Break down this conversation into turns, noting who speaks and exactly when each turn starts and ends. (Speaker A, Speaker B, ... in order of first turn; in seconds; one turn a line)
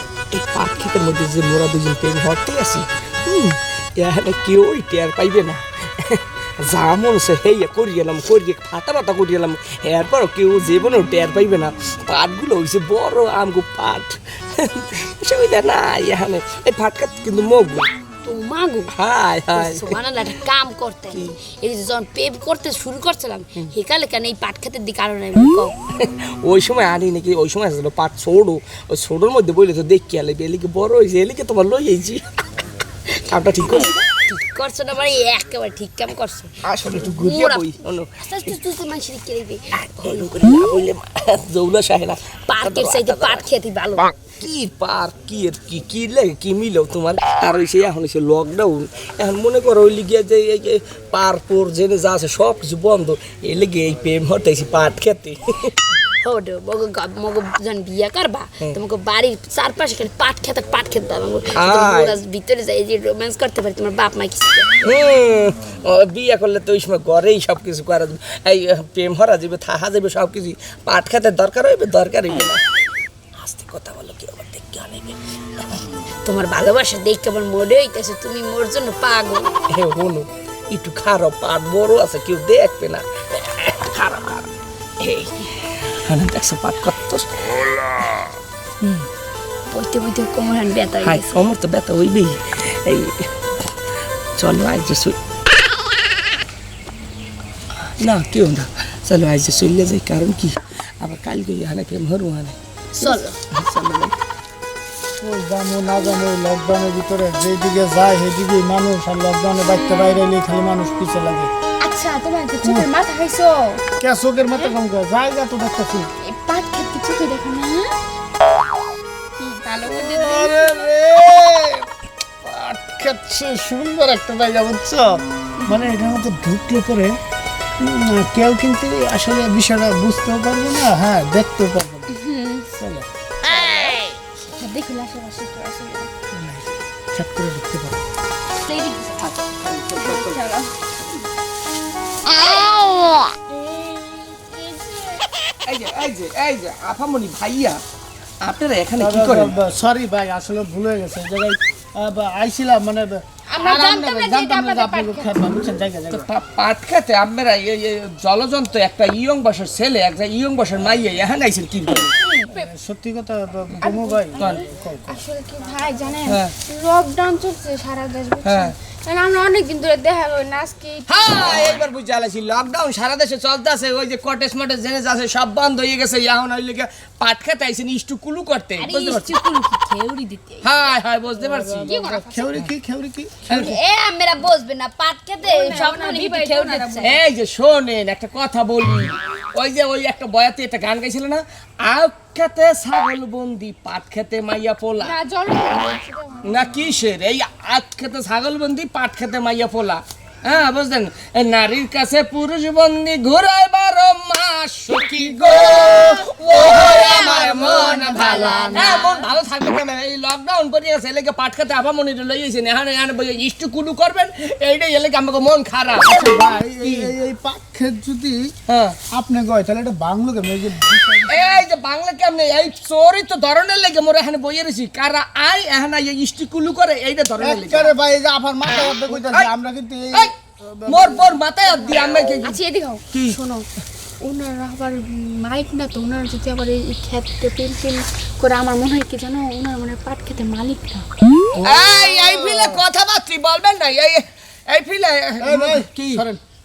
Speaker A: 0.3-17.9
Speaker B: 18.2-18.9
Speaker A: 18.9-20.0
Speaker B: 19.5-25.7
Speaker A: 21.1-21.4
Speaker A: 25.9-32.2
Speaker A: 33.1-34.0
Speaker B: 34.3-40.6
Speaker A: 36.6-38.6
Speaker A: 39.8-43.5
Speaker B: 42.5-44.1
Speaker A: 44.2-55.8
Speaker B: 56.2-64.9
Speaker A: 61.5-62.2
Speaker A: 64.8-72.6
Speaker A: 73.4-75.8
Speaker B: 76.2-79.5
Speaker A: 79.7-84.5
Speaker A: 85.0-88.0
Speaker B: 89.7-91.5
Speaker A: 91.0-93.3
Speaker A: 94.4-95.2
Speaker A: 97.8-104.2
Speaker B: 103.0-103.3
Speaker C: 105.2-111.5
Speaker D: 111.8-113.8
Speaker C: 114.0-116.1
Speaker D: 116.2-118.0
Speaker D: 119.4-120.9
Speaker A: 119.9-121.7
Speaker A: 122.5-122.7
Speaker C: 122.5-127.2
Speaker C: 127.8-132.1
Speaker D: 132.2-132.7
Speaker C: 132.7-133.1
Speaker A: 133.5-134.0
Speaker D: 134.4-136.1
Speaker C: 136.3-138.0
Speaker B: 138.7-139.3
Speaker D: 138.7-139.0
Speaker A: 139.2-140.4
Speaker D: 139.9-140.7
Speaker D: 142.3-142.9
Speaker D: 143.5-145.3
Speaker A: 145.6-147.8
Speaker A: 148.4-149.5
Speaker C: 149.0-156.3
Speaker D: 153.5-155.3
Speaker A: 156.1-162.1
Speaker D: 162.2-162.7
Speaker C: 162.5-165.2
Speaker D: 163.8-171.8
Speaker A: 164.4-164.7
Speaker A: 166.2-166.5
Speaker A: 168.4-168.7
Speaker A: 171.1-179.3
Speaker B: 178.8-180.8
Speaker A: 180.6-182.0
Speaker C: 181.4-183.7
Speaker D: 181.8-182.6
Speaker B: 183.5-187.2
Speaker D: 185.4-187.2
Speaker A: 187.0-195.2
Speaker D: 195.0-196.6
Speaker A: 196.4-216.2
Speaker C: 205.4-209.1
Speaker B: 206.9-207.5
Speaker B: 208.1-209.2
Speaker C: 216.0-218.5
Speaker A: 216.8-217.1
Speaker A: 218.7-219.0
Speaker C: 219.1-221.6
Speaker A: 221.2-227.9
Speaker C: 227.4-231.7
Speaker A: 229.1-229.5
Speaker A: 230.8-232.6
Speaker D: 231.9-233.7
Speaker A: 233.1-233.4
Speaker D: 234.2-241.1
Speaker C: 241.5-242.8
Speaker A: 241.6-246.2
Speaker C: 245.4-246.4